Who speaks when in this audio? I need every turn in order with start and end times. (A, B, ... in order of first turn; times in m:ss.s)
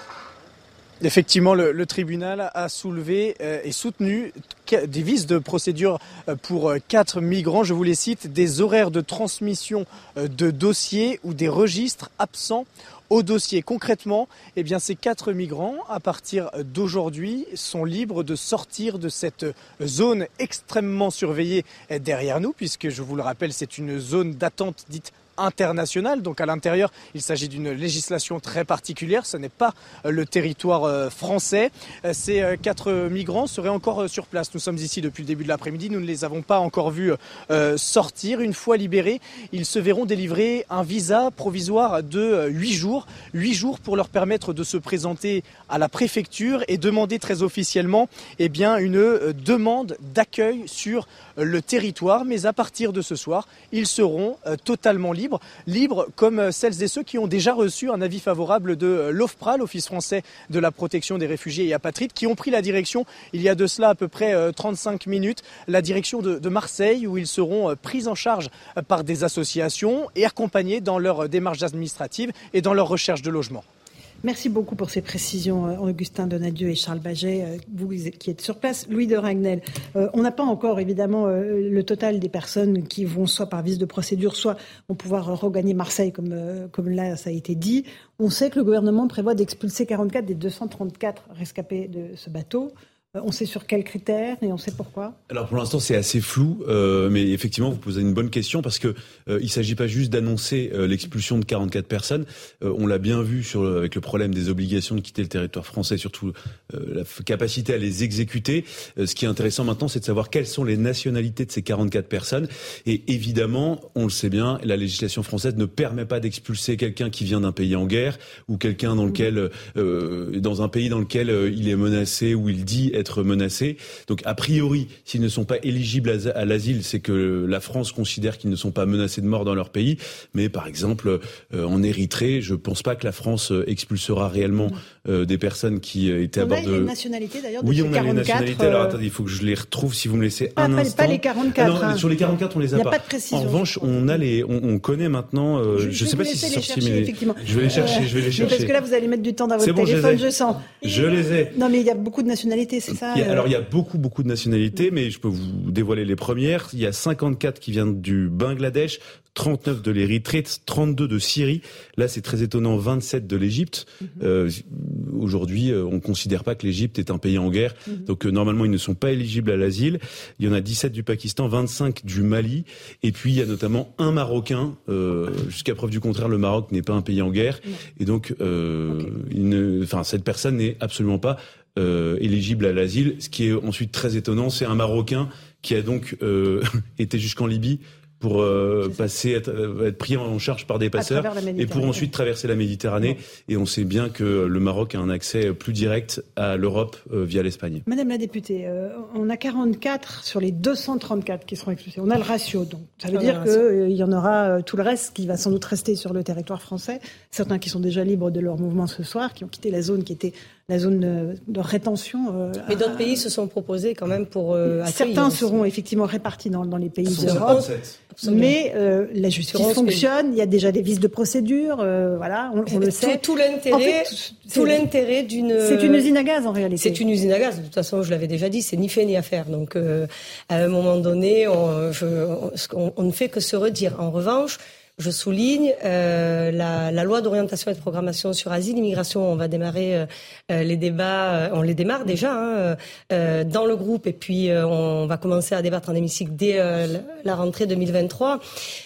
0:01.0-1:13.6 A
1:14.2-1:35.2 B
1:35.3-2:16.9 C
2:16.4-2:19.0 B
2:17.6-2:28.8 C
2:20.6-2:22.0 B
2:22.8-2:24.2 B
2:25.7-2:30.9 B
2:29.6-2:30.3 C
2:30.8-2:31.6 C
2:31.5-2:33.5 B
2:32.9-3:17.8 C
3:11.0-3:12.1 B
3:17.9-3:33.2 B
3:23.1-3:23.6 D
3:32.7-3:35.6 D
3:34.7-3:37.7 B
3:37.1-3:38.0 C
3:37.2-3:38.6 D
3:38.2-3:44.8 B
3:39.5-3:40.0 D
3:42.7-3:46.0 D
3:45.6-3:47.0 B
3:46.8-4:08.4 D